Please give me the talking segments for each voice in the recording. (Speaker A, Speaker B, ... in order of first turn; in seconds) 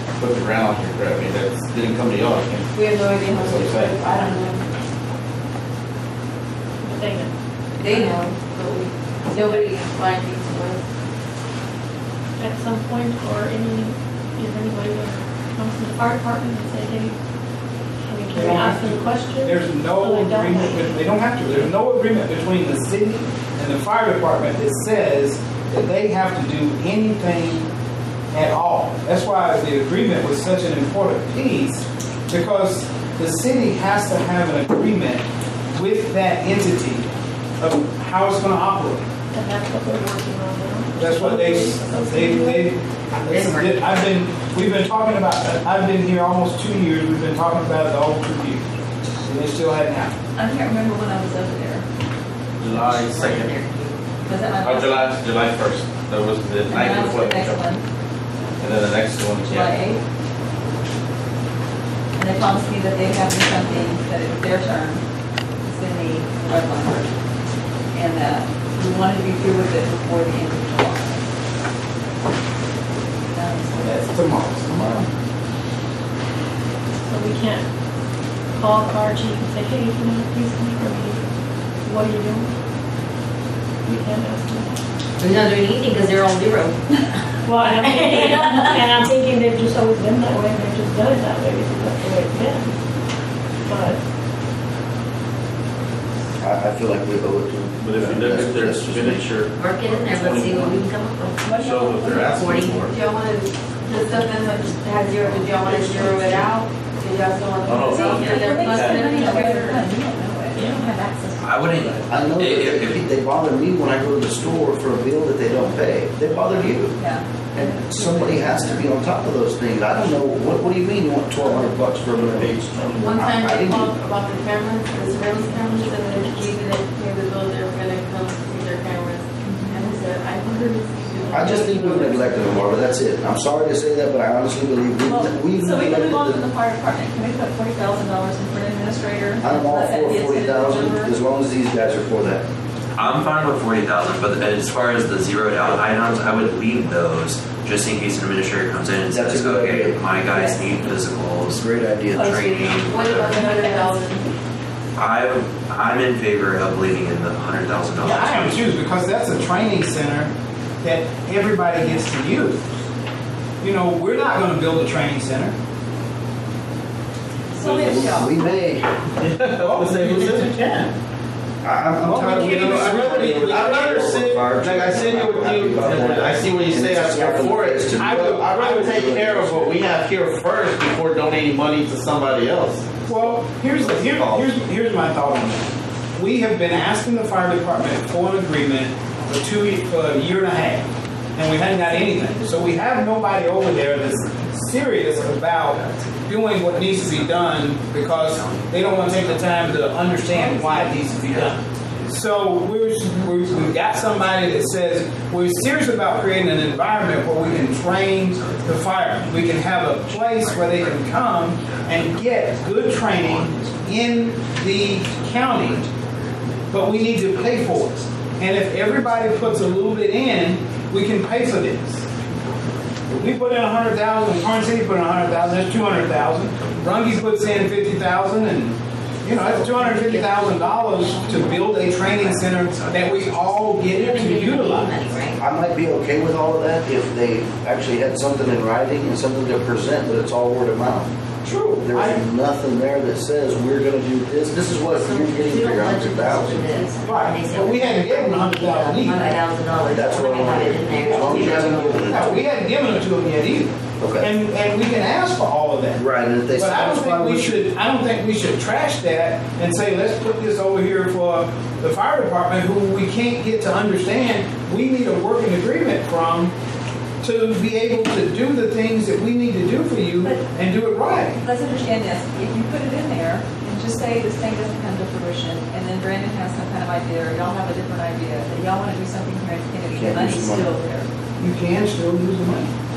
Speaker A: 0.2-2.8, 3.3-3.9, 43.3-43.7, 52.6-53.5, 54.6-57.6, 58.6-59.7, 97.8-100.9, 101.6-102.9, 105.2-106.5, 107.6-109.2, 122.1-124.3, 169.2-170.9, 172.2-183.0
Speaker B: 2.7-4.6, 7.8-10.8, 102.9-109.8, 122.9-132.8, 152.8-154.3
Speaker C: 6.8-7.3, 12.4-17.2, 18.1-21.7, 39.3-42.8, 77.0-77.7, 78.5-81.2, 81.8-82.5, 83.8-84.8, 87.4-92.7, 93.6-94.0, 110.5-110.8, 130.5-131.6
Speaker D: 7.8-8.2, 9.3-9.8, 50.4-51.8, 54.2-55.2, 56.7-57.8, 59.5-60.0, 62.1-65.0, 65.6-67.1, 67.9-71.2, 73.3-74.1, 101.4-102.7, 107.9-112.0, 117.0-118.9, 129.4-129.8, 135.0-141.1, 152.2-154.1, 167.5-168.6, 271.4-281.1
Speaker E: 18.3-27.7, 28.3-37.1, 37.6-39.0, 40.9-50.1, 73.8-75.1, 158.0-162.6, 163.6-165.5, 169.6-170.5, 172.0-174.3, 177.9-179.0, 183.0-215.9, 216.7-222.0, 223.1-235.2, 241.4-242.2, 247.0-249.4, 250.9-266.5, 267.2-271.4, 281.4-282.7
Speaker F: 52.8-54.0, 85.2-86.8, 87.8-88.7, 99.6-101.5, 102.4-102.8, 229.3-231.7, 234.0-235.4, 244.9-252.1
Speaker G: 96.4-99.3, 112.1-117.0, 117.5-123.9, 131.3-136.4, 139.4-142.4, 149.1-150.0, 151.5-152.4, 167.6-168.8, 171.6-179.8, 235.4-241.1, 241.8-246.9, 249.9-252.2, 254.0-254.3, 255.9-257.6, 279.9-280.7
Speaker H: 111.4-113.0, 142.9-153.4, 154.9-158.6, 183.1-184.5, 192.2-192.7, 193.7-228.5, 232.0-234.1